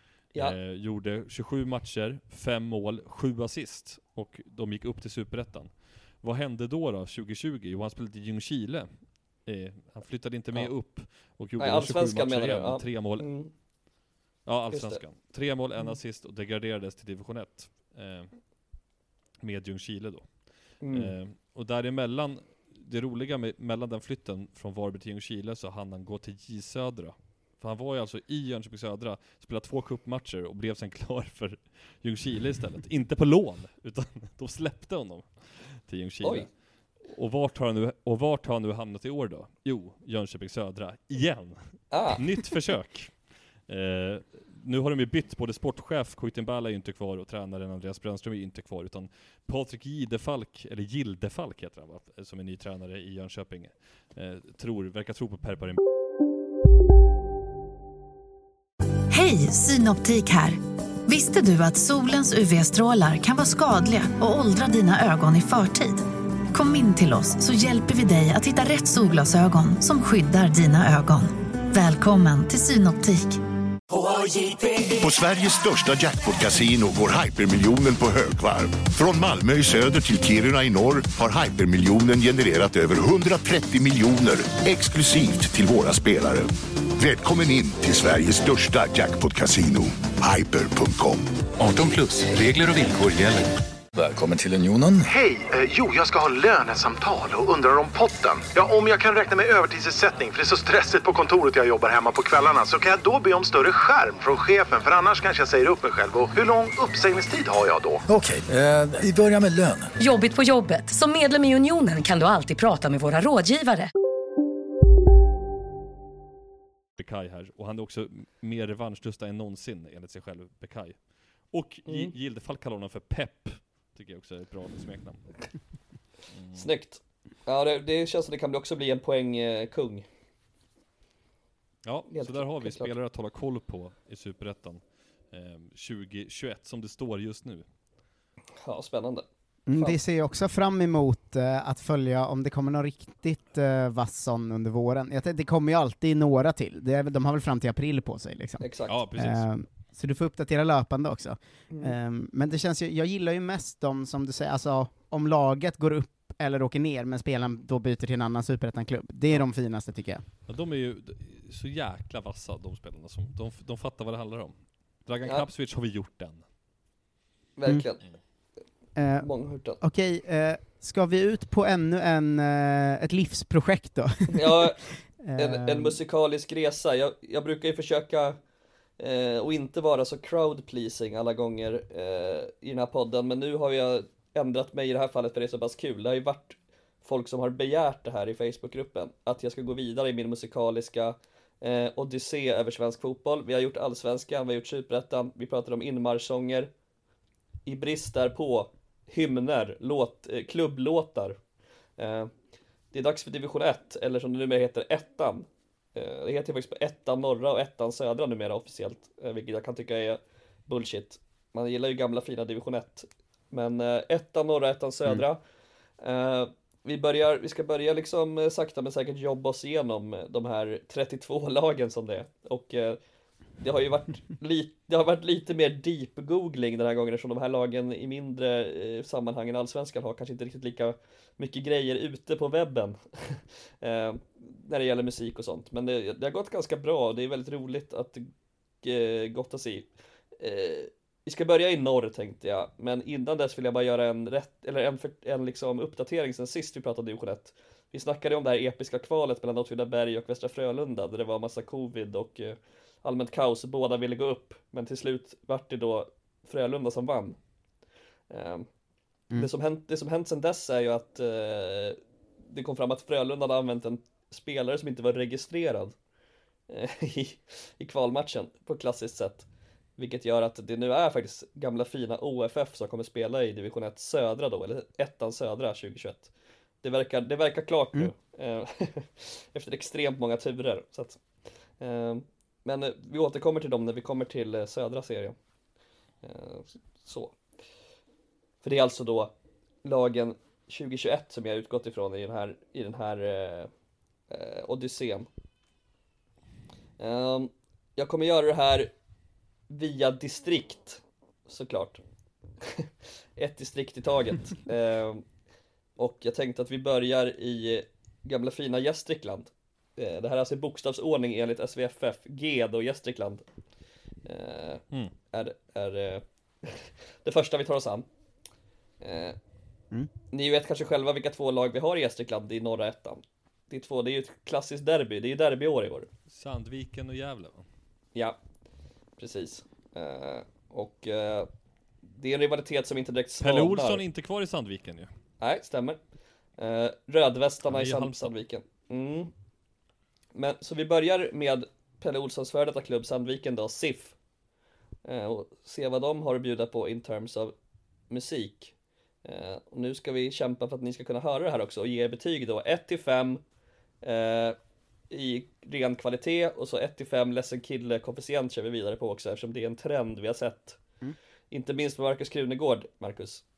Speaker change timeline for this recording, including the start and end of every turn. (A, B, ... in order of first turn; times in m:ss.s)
0:00.3-0:13.3 A
0:11.6-0:13.5 B
0:14.4-0:18.4 A
0:14.7-0:15.0 B
0:19.4-0:36.5 A
0:20.8-0:21.1 B
0:36.2-0:36.5 B
0:37.0-0:43.2 A
0:41.9-0:42.2 B
0:43.7-0:55.8 A
0:59.1-1:13.4 C
1:14.8-1:31.3 D
1:31.6-1:35.1 E
1:35.0-1:48.0 F
1:48.1-1:49.9 E
1:50.0-1:53.9 G
1:57.0-2:05.4 A
2:01.8-2:02.1 B
2:06.3-2:06.7 A
2:06.6-2:10.0 B
2:11.8-2:17.6 A
2:12.1-2:12.9 B
2:18.6-2:20.0 B
2:19.7-2:40.2 H
2:28.6-2:28.9 B
2:28.9-2:29.5 A
2:40.5-2:46.4 A
2:47.6-2:48.0 B
2:49.0-2:49.3 H
2:49.2-2:49.8 B
2:49.8-2:56.0 H
2:54.3-2:58.4 B
2:59.0-3:16.7 B
3:17.6-3:21.4 B
3:22.0-3:22.3 B
3:22.9-3:35.4 B
3:36.0-3:43.0 B
3:43.6-3:58.3 B
3:58.8-3:59.9 B
4:00.4-4:17.4 B
4:18.3-4:18.7 B
4:19.3-4:22.0 B
4:22.5-4:25.9 B
4:26.7-4:29.4 B
4:30.0-4:36.3 B
4:36.8-4:41.2 B
4:41.8-4:45.4 B
4:46.2-4:47.4 B
4:48.6-4:49.3 B
4:49.8-4:53.7 B
4:54.3-4:55.3 B
4:57.0-4:58.9 B
4:59.7-5:02.0 B
5:02.6-5:05.2 B
5:06.0-5:13.4 B
5:14.2-5:18.0 B
5:19.0-5:19.4 B
5:20.3-5:26.1 B
5:26.3-5:27.6 A
5:29.2-5:31.5 B
5:32.0-5:34.0 B
5:33.4-5:35.1 A
5:35.4-5:36.0 B
5:36.6-5:39.3 B
5:37.7-5:38.3 A
5:40.3-5:44.1 B
5:45.0-5:47.5 B
5:48.1-5:48.7 B
5:49.2-5:53.4 B
5:54.0-5:54.6 B
5:55.1-6:00.8 B
6:01.5-6:03.4 B